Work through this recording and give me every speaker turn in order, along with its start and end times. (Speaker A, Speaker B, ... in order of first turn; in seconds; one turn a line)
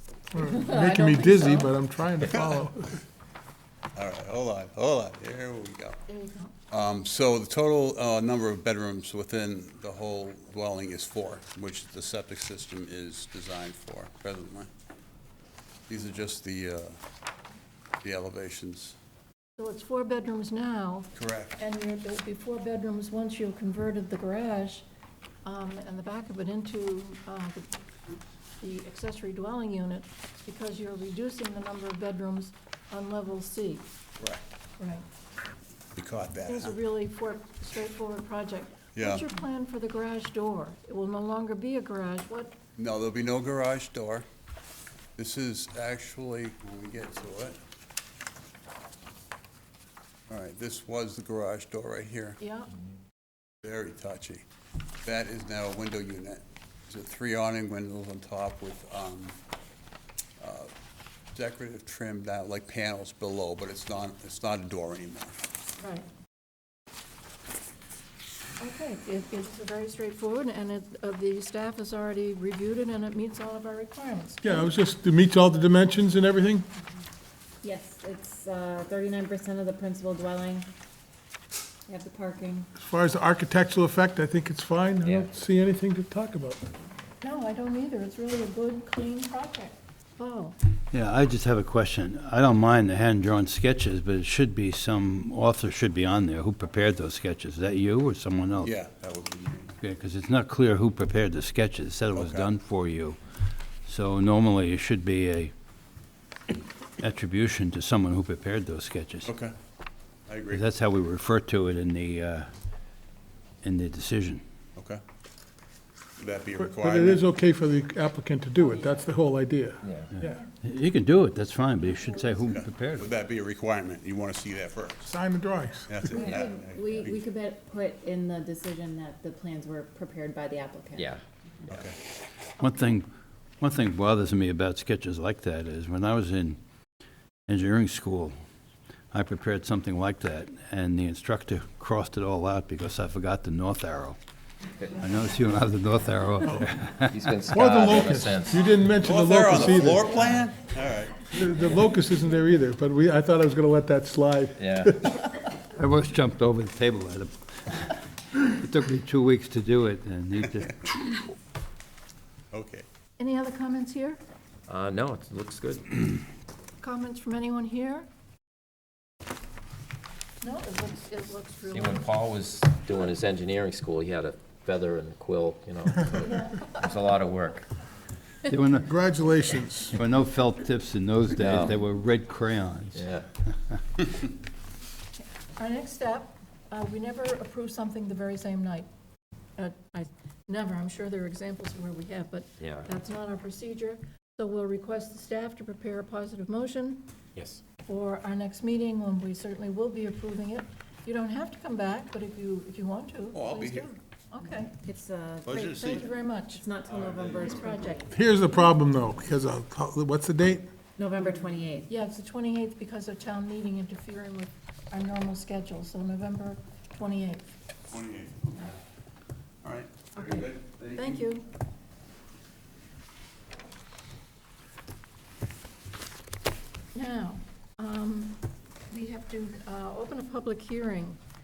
Speaker A: 0.3-3.0
Speaker B: 0.6-1.4
Speaker C: 2.2-2.6
Speaker C: 4.0-6.0
Speaker D: 6.1-6.5
Speaker C: 6.7-14.7
Speaker C: 15.9-17.0
Speaker C: 18.0-18.9
Speaker D: 19.6-24.9
Speaker C: 21.1-21.6
Speaker D: 25.4-27.7
Speaker D: 28.6-33.9
Speaker D: 34.8-35.1
Speaker C: 36.0-36.8
Speaker D: 36.5-42.5
Speaker C: 39.0-39.3
Speaker C: 42.8-44.2
Speaker C: 45.2-47.6
Speaker C: 50.3-52.4
Speaker D: 52.4-52.7
Speaker C: 53.6-54.4
Speaker C: 55.0-59.4
Speaker C: 60.4-60.7
Speaker C: 61.3-65.4
Speaker D: 65.8-66.1
Speaker D: 68.6-74.7
Speaker A: 74.4-76.7
Speaker B: 77.6-80.7
Speaker B: 81.9-82.7
Speaker A: 82.8-86.7
Speaker E: 85.0-85.3
Speaker D: 87.2-90.6
Speaker F: 90.9-98.7
Speaker C: 98.6-99.8
Speaker F: 99.8-103.2
Speaker C: 102.1-102.5
Speaker F: 103.8-105.5
Speaker F: 107.0-109.3
Speaker C: 109.3-109.5
Speaker C: 110.3-110.6
Speaker F: 110.5-112.5
Speaker F: 113.6-114.4
Speaker C: 114.8-115.0
Speaker C: 116.2-117.2
Speaker A: 116.6-120.4
Speaker B: 118.7-119.1
Speaker E: 119.8-120.1
Speaker F: 120.2-123.1
Speaker C: 122.5-125.1
Speaker A: 125.0-126.3
Speaker C: 125.9-127.2
Speaker B: 126.1-131.2
Speaker E: 130.9-131.2
Speaker C: 131.7-132.0
Speaker F: 132.6-133.1
Speaker F: 133.6-136.6
Speaker F: 137.5-138.3
Speaker F: 139.1-144.2
Speaker F: 144.9-147.3
Speaker E: 147.1-148.6
Speaker A: 147.5-150.2
Speaker C: 149.0-151.3
Speaker A: 151.3-155.2
Speaker E: 154.6-154.9
Speaker F: 155.7-161.2
Speaker C: 162.5-162.9
Speaker D: 163.2-164.2
Speaker E: 164.7-166.1
Speaker D: 166.8-168.1
Speaker D: 170.4-172.1
Speaker E: 171.7-177.7
Speaker D: 176.3-176.8
Speaker F: 178.5-178.9
Speaker A: 178.9-180.0
Speaker F: 179.9-183.1
Speaker E: 181.4-181.8
Speaker E: 182.9-183.3
Speaker D: 185.6-188.9
Speaker D: 189.6-197.1
Speaker E: 192.6-192.9
Speaker E: 197.4-197.6
Speaker D: 197.8-204.8
Speaker C: 203.3-203.9
Speaker B: 204.8-205.6
Speaker C: 205.5-206.0
Speaker D: 205.5-206.7
Speaker B: 206.5-208.1
Speaker D: 207.4-208.0
Speaker A: 208.1-210.7
Speaker B: 211.0-211.9
Speaker D: 211.9-217.5
Speaker C: 217.9-218.7
Speaker C: 219.6-221.0
Speaker D: 220.2-221.5
Speaker D: 226.9-231.2